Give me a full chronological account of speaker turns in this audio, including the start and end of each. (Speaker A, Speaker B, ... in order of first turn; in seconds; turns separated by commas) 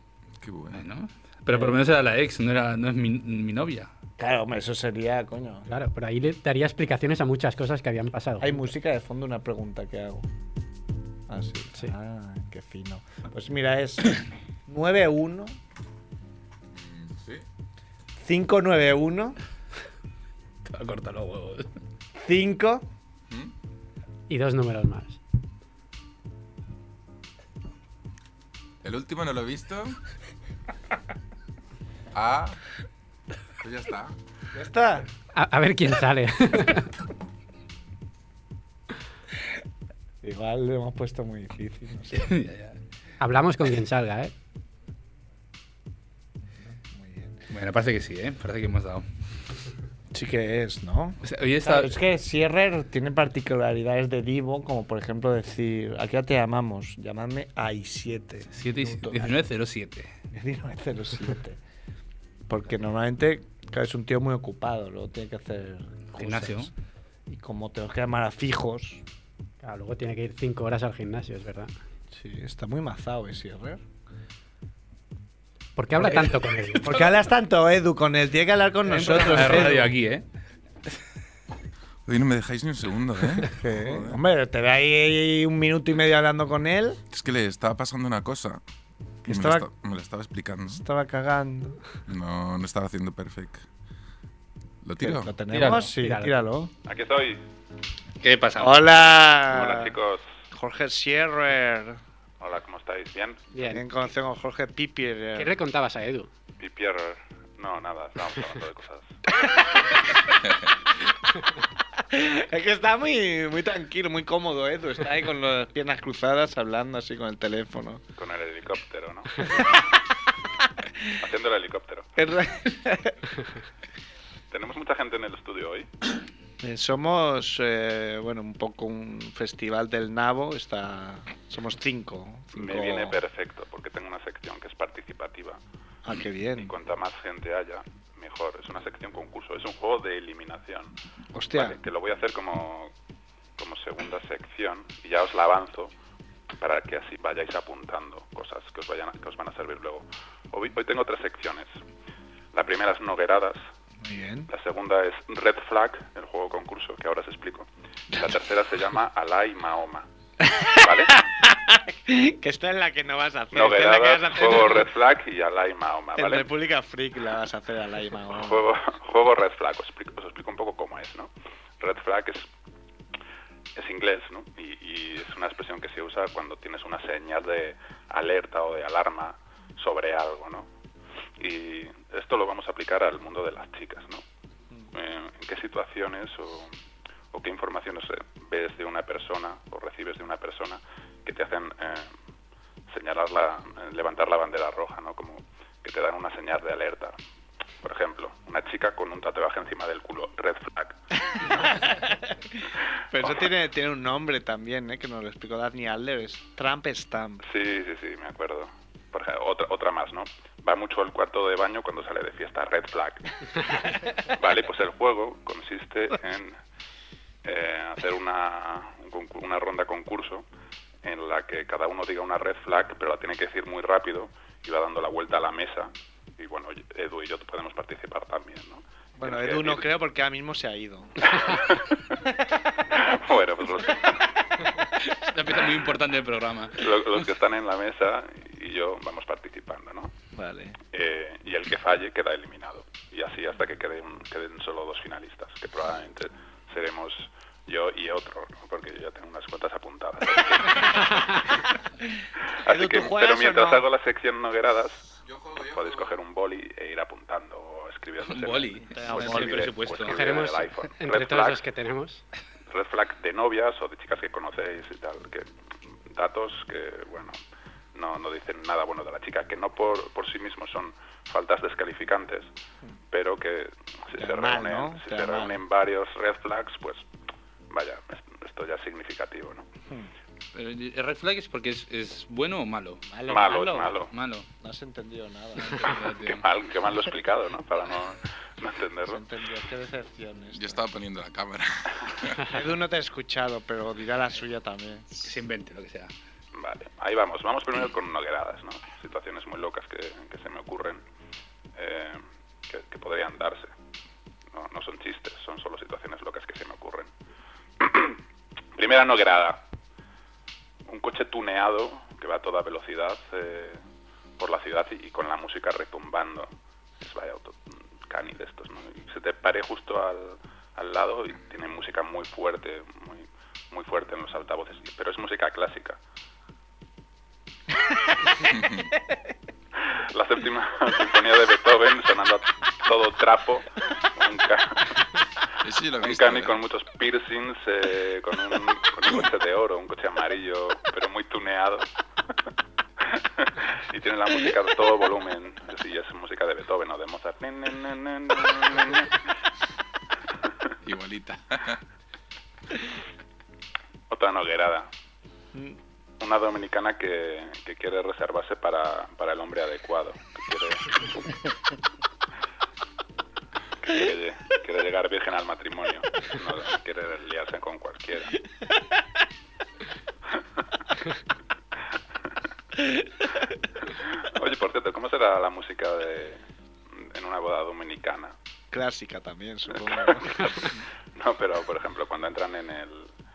Speaker A: 0.4-0.8, Speaker B: 0.7-3.9, Speaker C: 4.2-5.7, Speaker D: 5.7-8.6, Speaker C: 8.4-10.2, Speaker C: 11.3-15.6, Speaker A: 16.7-17.4, Speaker C: 18.2-19.4, Speaker B: 20.6-21.7, Speaker C: 22.2-22.9, Speaker D: 24.3-25.2, Speaker A: 28.8-30.0, Speaker A: 32.1-32.6, Speaker A: 33.6-34.1, Speaker C: 34.5-35.1, Speaker D: 35.3-36.9, Speaker C: 40.2-42.3, Speaker B: 42.1-42.8, Speaker D: 43.2-44.3, Speaker C: 46.7-47.4, Speaker B: 47.5-49.1, Speaker C: 50.1-59.5, Speaker B: 51.2-51.9, Speaker B: 58.5-60.1, Speaker C: 60.3-61.6, Speaker C: 62.5-66.7, Speaker B: 66.2-66.7, Speaker C: 67.3-69.0, Speaker D: 69.6-71.7, Speaker C: 72.1-73.8, Speaker D: 75.8-77.0, Speaker C: 76.7-79.9, Speaker B: 78.8-80.2, Speaker A: 82.1-84.0, Speaker C: 83.5-87.0, Speaker A: 87.1-88.6, Speaker C: 89.2-89.7, Speaker A: 89.2-90.8, Speaker C: 90.7-91.8, Speaker A: 92.1-93.6, Speaker A: 94.8-95.3, Speaker C: 95.0-96.7, Speaker B: 95.5-95.9, Speaker D: 96.0-96.3, Speaker E: 96.8-97.4, Speaker B: 98.2-98.8, Speaker C: 98.6-99.9, Speaker E: 99.5-100.2, Speaker C: 100.5-102.0, Speaker E: 102.4-103.5, Speaker D: 103.5-103.8, Speaker C: 103.6-105.5, Speaker D: 105.3-106.3, Speaker E: 106.6-109.2, Speaker C: 112.1-118.0, Speaker E: 118.2-119.8, Speaker E: 121.2-122.1, Speaker C: 122.2-123.2, Speaker E: 124.5-125.9, Speaker C: 126.6-133.2, Speaker E: 132.6-135.6, Speaker C: 136.1-136.7, Speaker E: 136.6-140.9, Speaker C: 141.3-141.8, Speaker E: 141.5-142.9, Speaker E: 143.6-145.9, Speaker E: 146.6-151.7, Speaker E: 152.5-153.6, Speaker C: 154.0-154.5, Speaker E: 154.5-160.1, Speaker C: 160.4-164.9, Speaker E: 160.7-161.2, Speaker E: 163.5-166.5, Speaker C: 166.2-168.7, Speaker E: 168.3-172.4, Speaker E: 173.8-180.7, Speaker E: 181.4-184.2, Speaker E: 184.9-186.7, Speaker E: 187.3-192.1, Speaker E: 192.9-197.2, Speaker E: 197.8-201.9, Speaker C: 201.8-202.6, Speaker C: 203.1-207.4, Speaker E: 203.2-203.5, Speaker E: 207.4-216.6, Speaker E: 217.4-220.4, Speaker E: 221.0-229.9, Speaker C: 229.2-231.3, Speaker E: 231.2-232.2, Speaker E: 232.9-234.3, Speaker B: 235.0-236.9, Speaker E: 236.8-240.1, Speaker C: 240.3-240.8, Speaker E: 240.9-251.6, Speaker E: 252.6-261.6, Speaker C: 252.7-253.8, Speaker A: 255.2-256.1, Speaker B: 258.2-260.4, Speaker C: 258.9-259.7, Speaker D: 260.1-262.2, Speaker E: 262.7-265.5, Speaker E: 266.1-267.4, Speaker E: 267.9-272.5, Speaker E: 273.1-277.0, Speaker C: 274.2-275.6, Speaker E: 277.7-279.7, Speaker B: 280.5-283.5, Speaker C: 283.1-284.0, Speaker E: 283.3-284.1, Speaker B: 284.1-284.5, Speaker C: 284.6-286.0, Speaker B: 285.6-286.4, Speaker E: 286.2-289.2, Speaker C: 289.1-290.8, Speaker A: 290.6-292.6, Speaker C: 292.4-295.1, Speaker B: 295.2-296.1, Speaker E: 296.6-301.0, Speaker E: 301.8-303.7, Speaker E: 304.5-307.1, Speaker E: 307.8-308.2, Speaker E: 308.8-309.6, Speaker E: 310.9-313.8, Speaker E: 314.4-326.0, Speaker A: 328.4-328.9, Speaker E: 329.9-334.9, Speaker A: 335.6-336.6, Speaker E: 336.0-341.9, Speaker E: 343.1-349.2, Speaker A: 350.8-351.8, Speaker E: 354.1-354.9, Speaker E: 356.2-361.3, Speaker E: 363.8-368.4, Speaker E: 373.9-378.3, Speaker C: 378.7-380.8, Speaker E: 379.8-383.1